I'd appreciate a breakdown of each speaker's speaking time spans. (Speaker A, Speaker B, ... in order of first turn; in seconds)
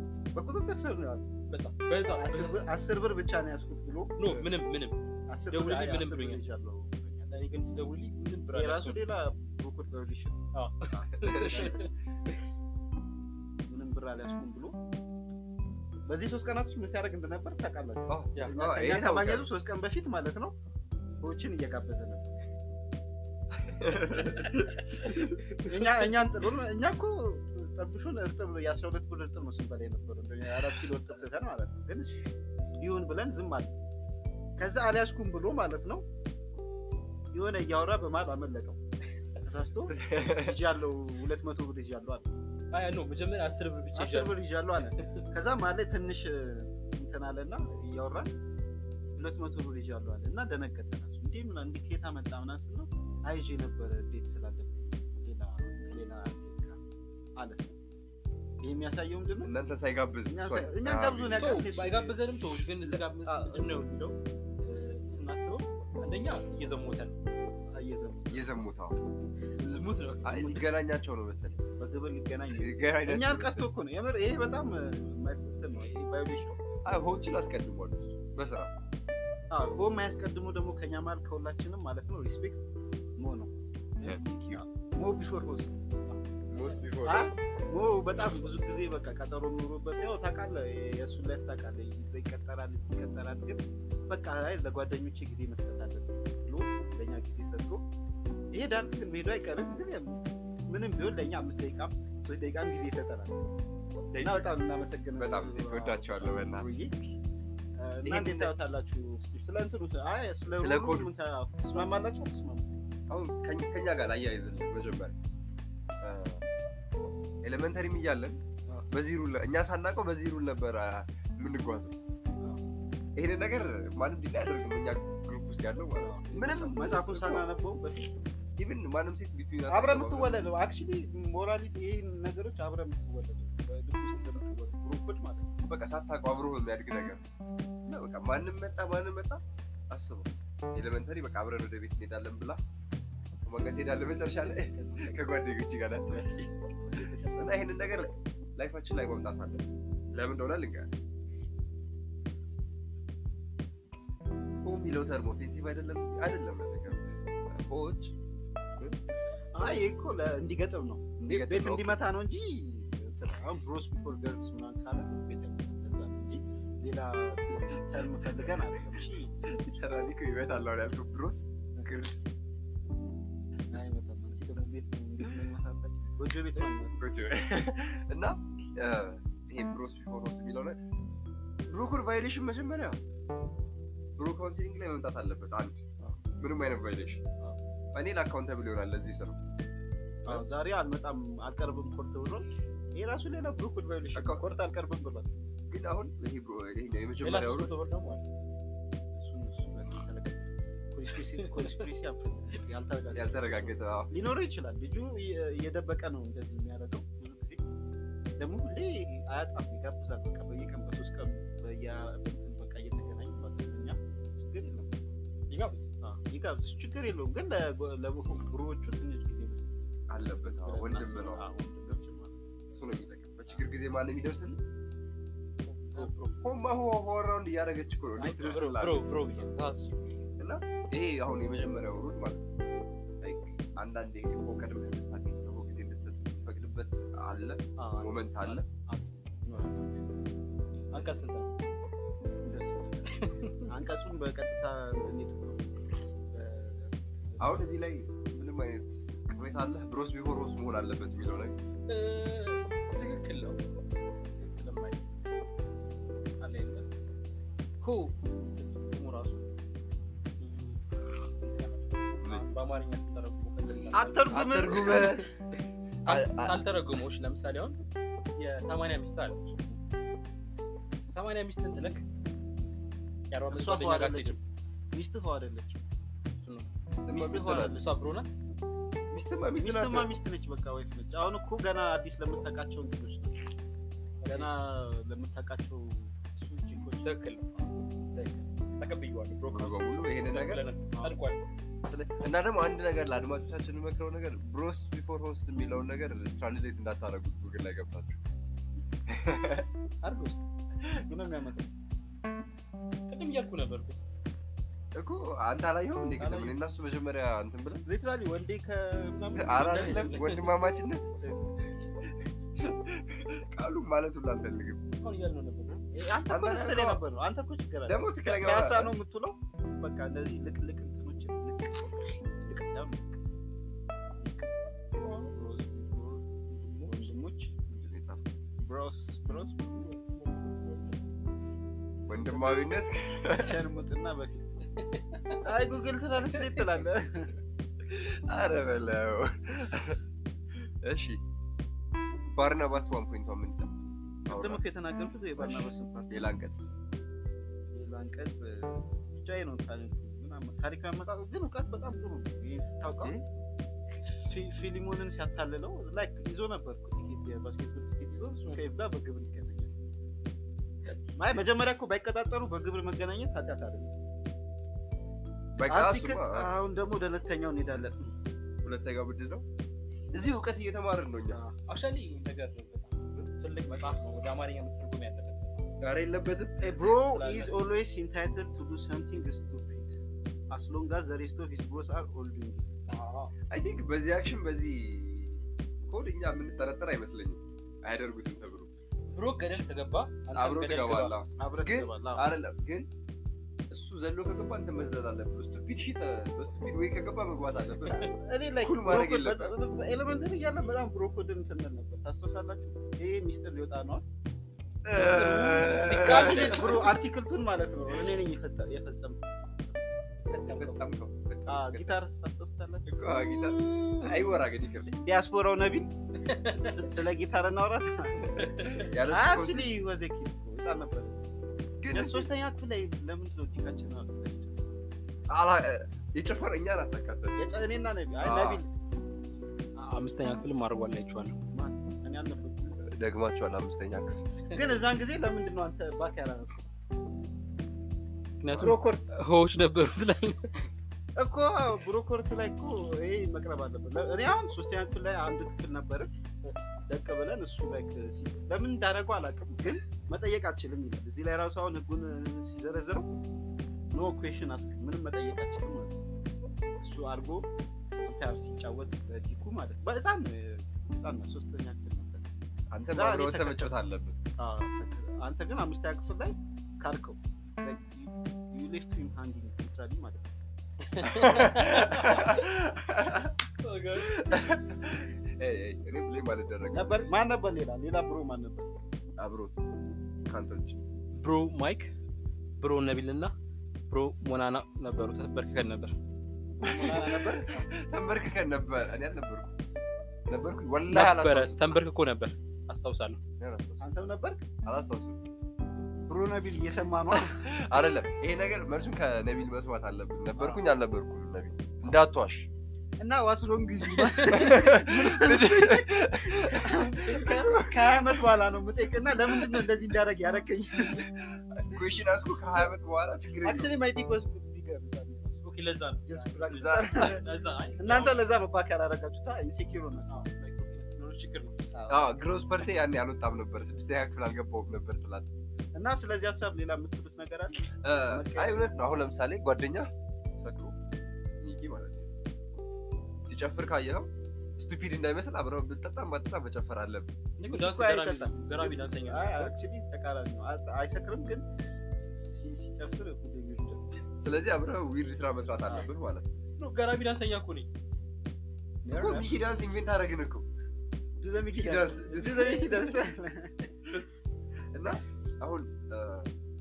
Speaker A: 0.3-1.2, 2.1-4.2, 5.3-7.3, 8.5-10.4, 11.0-11.9, 13.7-14.8, 16.1-20.6, 21.2-22.4, 24.1-32.2, 32.8-33.7, 34.6-36.0, 37.3-38.8, 39.4-42.3, 44.0-48.3, 49.2-56.8, 57.4-57.7, 58.6-59.5, 60.3-62.2, 62.8-63.8, 67.7-68.5, 69.5-70.6, 71.8-76.6, 79.5-82.6, 83.2-83.5, 84.5-85.7, 87.0-97.8, 98.5-103.4, 104.2-106.9, 107.8-112.7, 126.0-128.2, 129.7-135.6, 144.6-145.2, 146.8-148.2, 159.6-169.9, 173.7-177.0, 190.2-195.3, 199.2-207.6, 208.4-215.1, 216.0-222.5, 237.8-240.1, 242.4-245.7, 246.3-247.6, 263.9-265.2, 273.5-274.4, 274.9-275.8, 277.1-277.9, 279.6-283.4, 284.3-288.5, 300.0-300.4, 301.0-301.7, 307.9-310.1, 311.2-311.5, 315.9-323.2, 324.2-324.5, 325.3-327.6, 328.6-330.0, 332.3-332.6, 333.4-334.6, 335.4-337.3, 344.3-346.3, 347.7-353.2, 354.0-359.7, 361.1-363.9, 365.7-368.1, 376.6-380.0, 380.5-382.7, 391.4-392.3, 398.2-404.0, 404.9-409.7, 411.5-414.1, 415.0-421.2, 421.9-424.6, 427.4-428.7, 431.5-432.8, 434.5-436.5, 438.5-439.1, 441.2-446.1, 446.9-453.1, 453.9-455.9, 456.8-462.3, 462.9-463.7, 464.4-470.3, 476.7-478.7, 486.6-487.7, 493.8-494.4, 496.1-497.4, 500.4-500.6, 503.0-511.1, 513.4-515.4, 516.1-517.2, 517.8-520.3, 521.7-522.1, 525.8-528.8, 537.4-541.5, 542.0-543.9, 548.8-549.4, 551.2-553.7
Speaker B: 1.5-2.7, 4.2-5.0, 5.5-6.4, 7.3-9.1, 10.5-11.9, 25.5-26.2, 42.7-44.4, 61.4-67.2, 69.6-70.6, 86.1-86.8, 104.2-104.4, 197.2-198.2, 201.4-201.8, 215.5-215.9, 225.7-226.3, 228.2-230.0, 240.9-241.5, 243.2-243.7, 251.9-253.6, 254.3-255.1, 256.4-256.9, 257.8-259.4, 260.4-260.8, 261.4-265.2, 266.0-267.8, 268.4-269.4, 271.1-272.0, 273.3-274.4, 276.4-276.7, 277.6-278.4, 284.2-284.5, 287.0-287.4, 288.8-291.4, 303.1-304.0, 306.2-306.5, 309.7-310.5, 314.9-315.8, 325.0-325.3, 326.6-327.1, 330.0-331.0, 334.8-335.4, 371.6-375.7, 376.8-377.5, 382.9-383.3, 389.1-391.1, 405.3-406.9, 410.3-410.9, 416.3-416.9, 418.4-418.9, 429.8-431.4, 438.4-440.6, 470.9-472.4, 473.6-474.3, 481.1-481.9, 482.6-483.3, 483.9-485.9, 490.9-493.2, 515.4-518.2, 520.1-521.6, 537.4-539.6, 546.6-547.7
Speaker C: 11.2-11.8, 18.1-19.5, 23.6-24.7, 39.9-40.6, 59.4-61.5, 68.3-69.0, 70.2-71.6, 72.6-73.7, 76.8-78.7, 84.0-84.6, 86.5-87.4, 105.2-107.2, 108.0-108.5, 110.5-111.1, 113.1-115.2, 116.0-116.5, 117.4-121.9, 123.2-127.5, 128.6-130.4, 135.7-137.2, 137.9-142.6, 143.4-146.5, 147.3-150.9, 154.6-158.1, 161.2-162.0, 168.2-172.3, 177.0-180.8, 181.7-183.0, 184.2-185.8, 186.4-187.2, 187.9-189.4, 194.2-194.4, 195.7-197.7, 203.1-204.1, 220.1-221.4, 222.7-224.6, 226.0-229.2, 230.4-232.4, 233.2-238.7, 247.4-251.6, 264.3-265.3, 266.1-266.6, 277.1-277.8, 279.1-280.1, 289.5-290.6, 291.9-298.2, 299.1-299.7, 304.9-307.9, 309.4-311.1, 312.0-314.8, 316.3-317.0, 317.9-318.9, 327.7-328.4, 332.1-333.6, 337.9-340.0, 340.6-341.2, 342.3-343.7, 344.3-344.6, 345.4-346.8, 353.0-353.2, 365.6-366.5, 368.6-369.4, 370.1-371.4, 375.8-376.8, 383.5-388.7, 390.4-392.9, 393.7-399.5, 404.9-406.9, 410.5-411.9, 412.9-414.9, 418.8-419.7, 421.8-422.3, 425.3-427.4, 428.2-428.6, 432.8-434.2, 462.7-464.2, 471.0-473.4, 473.9-477.1, 479.2-479.6, 480.3-480.8, 486.6-489.5, 490.3-491.8, 493.4-493.9, 494.6-495.2, 497.1-502.5, 504.2-508.3, 509.2-509.7, 510.8-513.7, 516.5-517.2, 521.9-525.3, 527.8-530.8, 531.4-532.1, 533.3-537.1, 544.2-546.2, 548.9-550.5, 551.5-553.0, 554.7-556.3